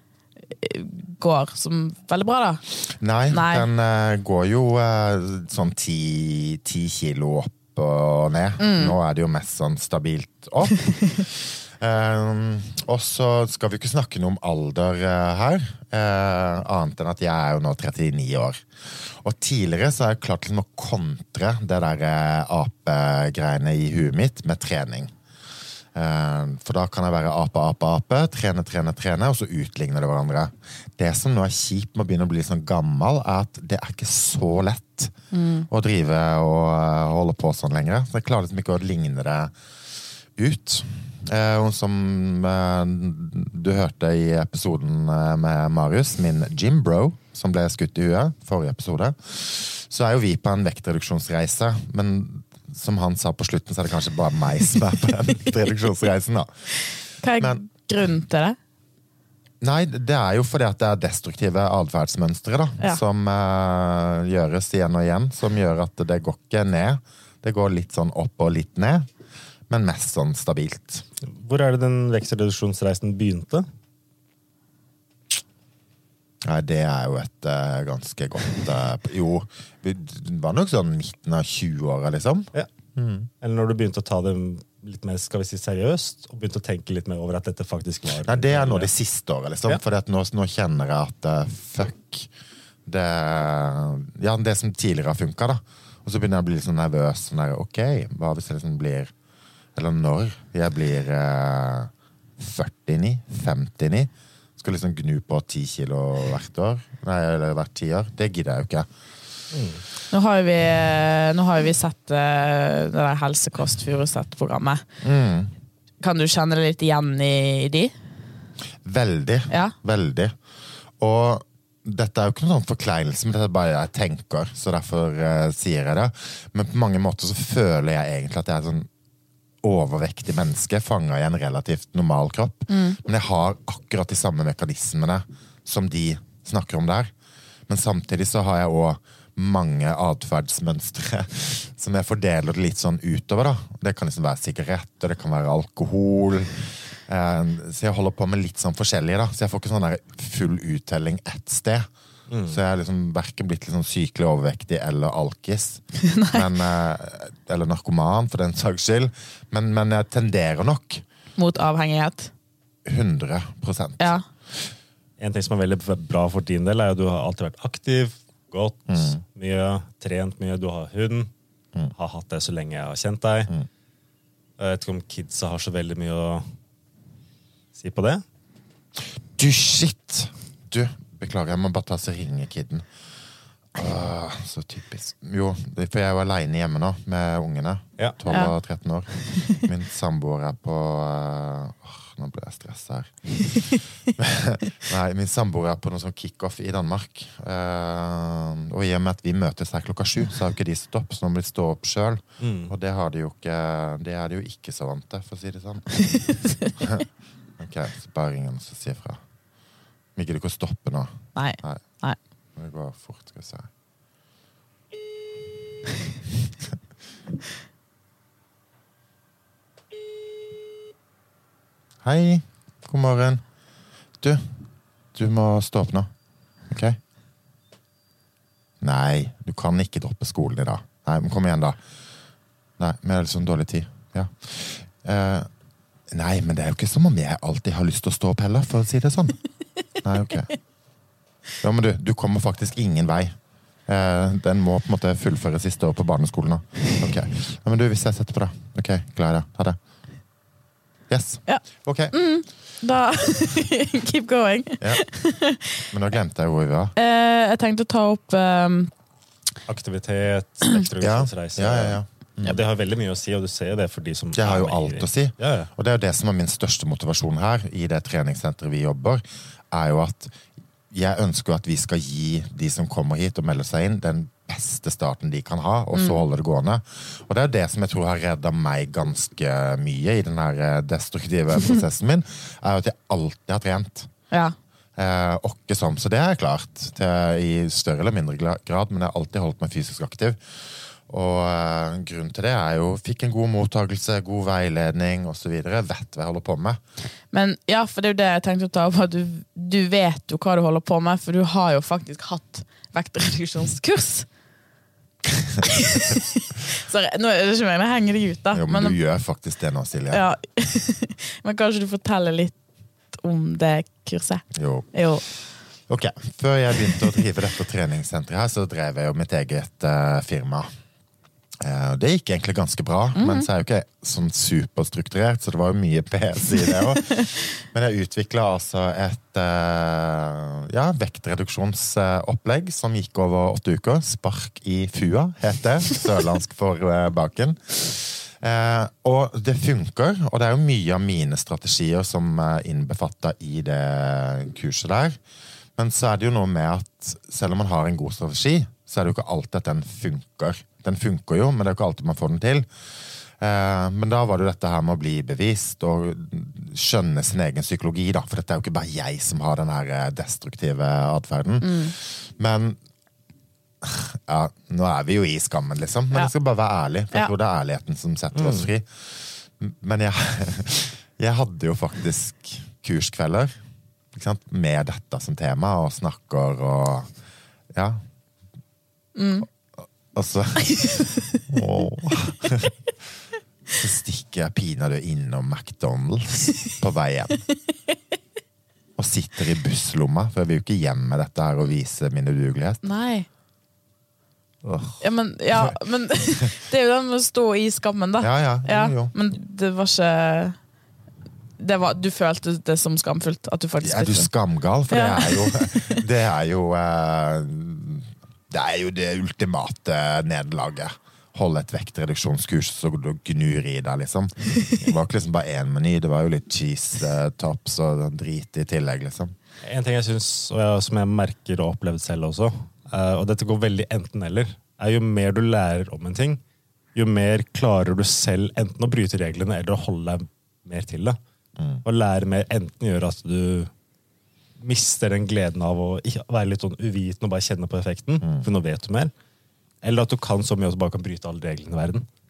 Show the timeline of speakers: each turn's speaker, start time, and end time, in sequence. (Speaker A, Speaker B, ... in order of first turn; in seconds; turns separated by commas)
Speaker A: 0.5-2.6, Speaker B: 2.9-25.1, Speaker A: 3.3-3.7, Speaker A: 8.6-8.9, Speaker B: 25.9-35.1, Speaker A: 35.3-35.7, Speaker B: 35.7-39.5, Speaker B: 40.4-56.5, Speaker A: 57.2-58.6, Speaker B: 59.6-69.1, Speaker B: 69.7-71.0, Speaker C: 71.3-73.6, Speaker B: 76.4-83.3, Speaker C: 83.4-88.9, Speaker B: 88.2-92.3, Speaker B: 92.8-99.1, Speaker B: 99.8-108.9, Speaker C: 109.5-109.8, Speaker A: 110.1-114.8, Speaker B: 115.0-115.5, Speaker A: 116.0-117.9, Speaker B: 118.8-120.3, Speaker B: 121.0-128.9, Speaker B: 129.6-137.1, Speaker A: 132.7-133.0, Speaker B: 137.7-151.9, Speaker C: 152.3-152.6, Speaker B: 152.5-161.0, Speaker A: 156.0-156.5, Speaker A: 161.4-162.3, Speaker B: 162.8-164.2, Speaker C: 165.2-171.3, Speaker B: 168.9-169.2, Speaker C: 171.9-173.5, Speaker C: 174.6-176.4, Speaker C: 177.7-178.2, Speaker B: 179.3-182.8, Speaker B: 183.7-206.0, Speaker A: 189.3-189.6, Speaker C: 202.4-202.7, Speaker A: 206.1-206.7, Speaker B: 206.8-207.0, Speaker B: 207.6-209.2, Speaker B: 210.2-211.8, Speaker A: 211.3-212.2, Speaker B: 212.6-213.7, Speaker B: 222.0-223.4, Speaker B: 224.2-224.5, Speaker B: 225.1-226.1, Speaker B: 226.7-227.0, Speaker B: 228.8-231.8, Speaker B: 232.8-235.5, Speaker B: 236.1-239.4, Speaker B: 240.0-240.5, Speaker B: 241.6-243.3, Speaker B: 243.9-249.8, Speaker B: 251.1-252.1, Speaker A: 251.4-255.8, Speaker B: 255.9-256.9, Speaker A: 256.9-258.9, Speaker C: 259.7-265.7, Speaker B: 261.0-262.6, Speaker B: 264.3-270.4, Speaker B: 270.9-284.1, Speaker A: 275.9-276.2, Speaker B: 285.0-290.4, Speaker B: 291.1-296.8, Speaker A: 297.3-304.3, Speaker A: 305.6-309.0, Speaker B: 308.5-310.2, Speaker A: 310.1-312.5, Speaker A: 313.1-315.2, Speaker B: 314.5-314.9, Speaker B: 315.9-320.7, Speaker B: 321.6-345.2, Speaker A: 323.1-323.5, Speaker B: 345.8-352.7, Speaker B: 353.4-362.8, Speaker A: 361.6-361.9, Speaker B: 363.8-373.5, Speaker C: 368.3-368.7, Speaker B: 374.1-377.1, Speaker B: 377.7-378.0, Speaker A: 379.1-379.5, Speaker B: 380.1-382.8, Speaker B: 383.7-387.4, Speaker B: 389.0-392.8, Speaker A: 392.8-393.3, Speaker B: 394.6-395.0, Speaker A: 395.0-400.6, Speaker B: 398.2-399.1, Speaker A: 401.6-404.3, Speaker B: 403.8-419.3, Speaker A: 404.9-406.0, Speaker C: 419.6-426.4, Speaker C: 426.9-431.2, Speaker C: 431.8-433.7, Speaker C: 434.6-439.1, Speaker C: 439.8-442.1